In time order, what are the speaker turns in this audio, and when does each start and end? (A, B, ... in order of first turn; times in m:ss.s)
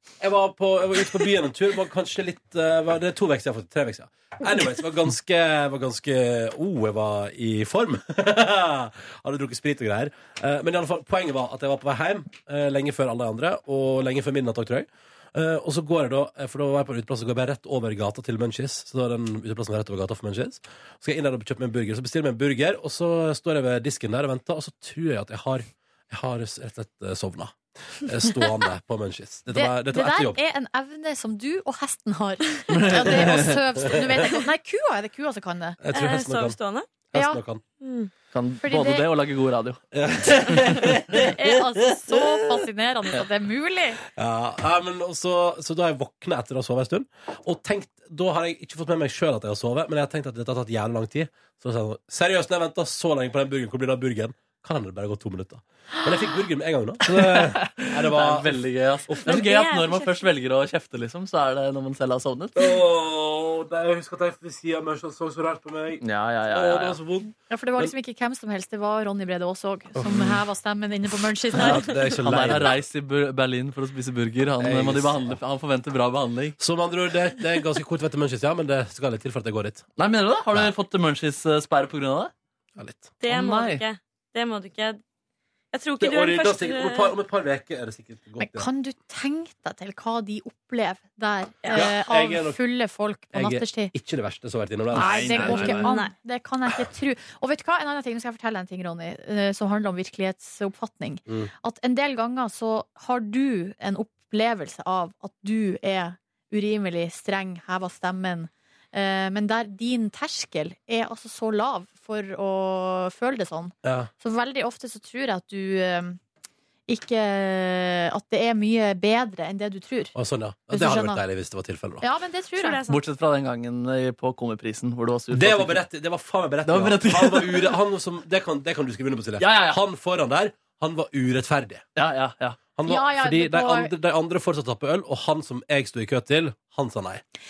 0:00.2-0:30.4 A
0:29.5-0:35.8 B
0:32.7-0:33.6 C
0:33.9-0:34.2 A
0:35.8-0:36.6 A
0:35.9-0:36.9 D
0:37.1-0:37.6 A
0:37.1-0:37.4 B
0:37.8-0:38.1 D
0:38.3-0:39.8 C
0:38.6-0:39.1 B
0:39.9-0:41.4 A
0:40.5-0:40.7 C
0:41.1-0:44.0 B
0:44.1-0:59.4 A
0:57.1-1:02.6 C
0:59.2-1:00.2 D
1:02.5-1:07.9 A
1:06.0-1:07.0 C
1:07.5-1:11.8 B
1:09.9-1:10.4 A
1:11.5-1:16.6 C
1:11.6-1:12.8 A
1:14.6-1:15.3 A
1:16.6-1:19.9 A
1:20.0-1:22.3 C
1:22.8-1:23.1 A
1:23.2-1:25.0 D
1:23.3-1:23.8 C
1:25.7-1:27.1 D
1:26.0-1:28.7 A
1:28.4-1:33.9 B
1:31.7-1:32.6 A
1:33.3-1:35.7 A
1:34.9-1:35.9 C
1:35.0-1:36.1 D
1:35.0-1:56.2 B
1:53.8-1:54.1 A
1:56.9-2:00.1 B
2:00.1-2:02.0 A
2:00.7-2:01.2 B
2:02.0-2:02.8 B
2:02.5-2:03.0 D
2:02.9-2:05.8 C
2:05.3-2:11.8 A
2:06.6-2:07.7 C
2:09.4-2:09.8 C
2:12.0-2:12.6 C
2:12.8-2:17.2 A
2:12.8-2:13.9 B